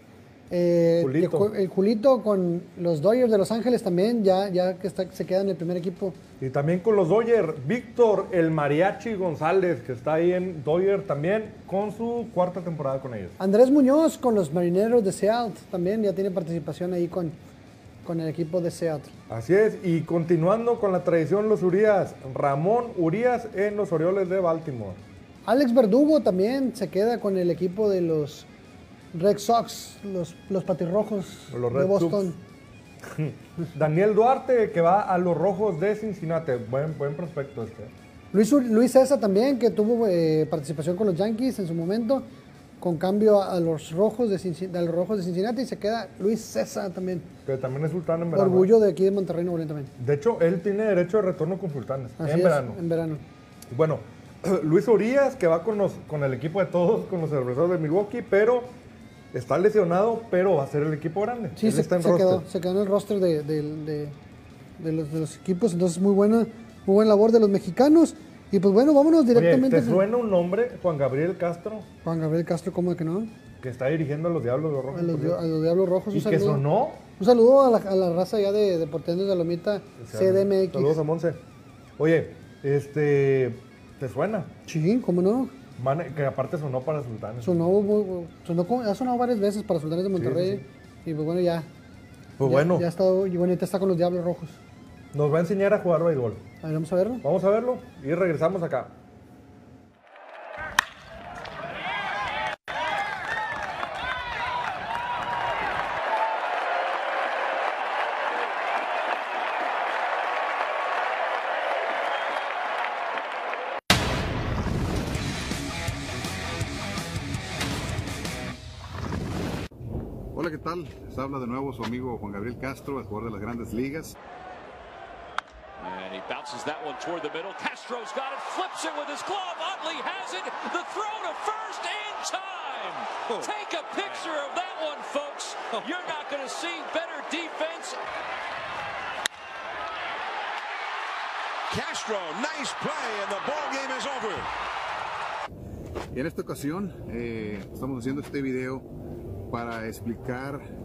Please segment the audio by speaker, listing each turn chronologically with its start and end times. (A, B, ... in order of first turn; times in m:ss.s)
0:00.5-0:06.2 A
0:01.0-0:01.5 B
0:06.4-0:13.4 B
0:13.4-0:17.4 A
0:18.0-0:19.1 A
0:19.3-0:25.0 B
0:25.4-0:28.5 A
0:29.1-0:32.4 A
0:31.5-0:32.3 B
0:33.0-0:37.9 B
0:38.3-0:42.3 A
0:42.8-0:47.3 A
0:47.4-0:48.7 B
0:48.3-0:49.9 A
0:50.0-0:52.8 B
0:52.2-0:53.2 A
0:53.7-0:58.7 B
0:59.3-1:02.4 B
1:01.6-1:04.2 A
1:04.8-1:10.0 A
1:09.3-1:11.9 B
1:12.0-1:13.3 A
1:13.6-1:15.4 B
1:14.9-1:16.6 A
1:16.1-1:17.0 B
1:17.2-1:21.0 A
1:20.0-1:21.4 B
1:22.0-1:24.5 B
1:24.6-1:25.5 A
1:25.8-1:27.7 B
1:27.4-1:31.7 A
1:30.2-1:30.6 B
1:32.4-1:32.8 B
1:32.4-1:34.6 A
1:35.1-1:36.4 B
1:36.6-1:37.2 A
1:37.2-1:38.9 B
2:00.3-2:04.2 C
2:05.8-2:18.0 D
2:21.7-2:24.5 E
2:26.1-2:28.8 C
2:29.5-2:30.6 C